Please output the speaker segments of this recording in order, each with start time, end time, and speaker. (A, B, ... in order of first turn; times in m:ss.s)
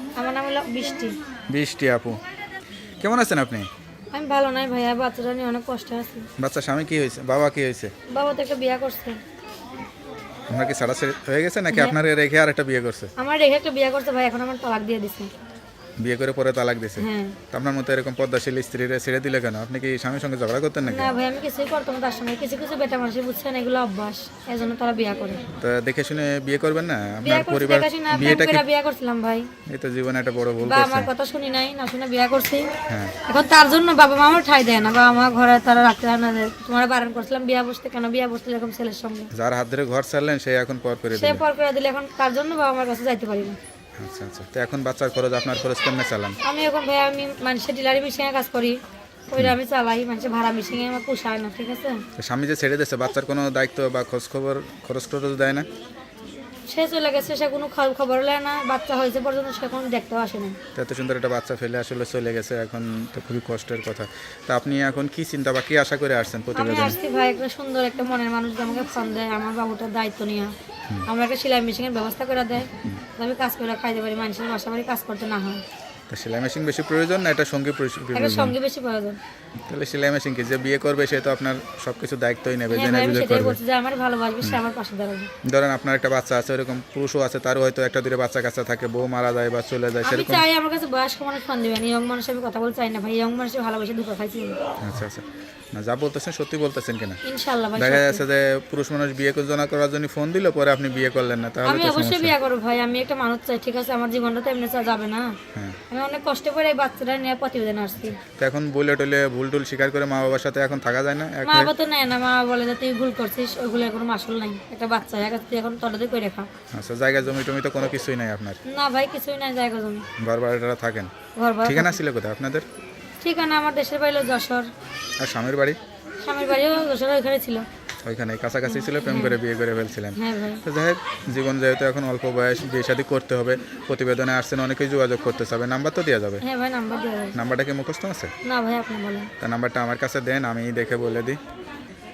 0:00.2-0:01.1 A
0:01.5-0:02.2 B
0:03.0-0:03.7 B
0:04.1-0:06.3 A
0:06.4-0:07.9 B
0:08.1-0:09.2 A
0:10.5-0:13.1 B
0:11.7-0:12.0 A
0:13.2-0:15.3 A
0:16.0-0:21.1 B
0:17.0-0:17.4 A
0:20.9-0:25.4 A
0:25.6-0:28.6 B
0:27.2-0:29.5 A
0:29.7-0:31.1 B
0:30.6-0:32.7 A
0:32.9-0:33.1 B
0:33.2-0:39.3 A
0:39.3-0:41.4 B
0:41.1-0:43.6 A
0:44.0-0:46.4 B
0:46.4-0:48.8 A
0:49.3-0:52.0 A
0:52.2-0:55.7 B
0:56.7-1:00.6 A
1:00.8-1:07.0 B
1:06.5-1:10.5 A
1:11.1-1:15.6 A
1:16.1-1:18.6 B
1:18.1-1:19.2 A
1:19.7-1:23.6 B
1:22.7-1:25.3 A
1:25.4-1:30.4 B
1:30.0-1:34.6 A
1:34.8-1:37.2 B
1:37.2-1:38.2 A
1:37.8-1:42.3 B
1:41.6-1:45.4 A
1:45.9-1:48.2 A
1:48.4-1:51.7 B
1:51.4-1:56.5 A
1:56.7-1:58.6 B
1:58.7-2:00.0 A
2:00.2-2:01.1 B
2:01.4-2:02.0 A
2:01.6-2:02.6 B
2:03.2-2:04.7 A
2:05.2-2:05.8 B
2:06.2-2:07.6 A
2:08.0-2:16.4 B
2:08.6-2:09.4 A
2:10.2-2:10.6 A
2:16.4-2:17.4 A
2:17.3-2:18.3 B
2:18.4-2:19.3 A
2:19.4-2:21.4 B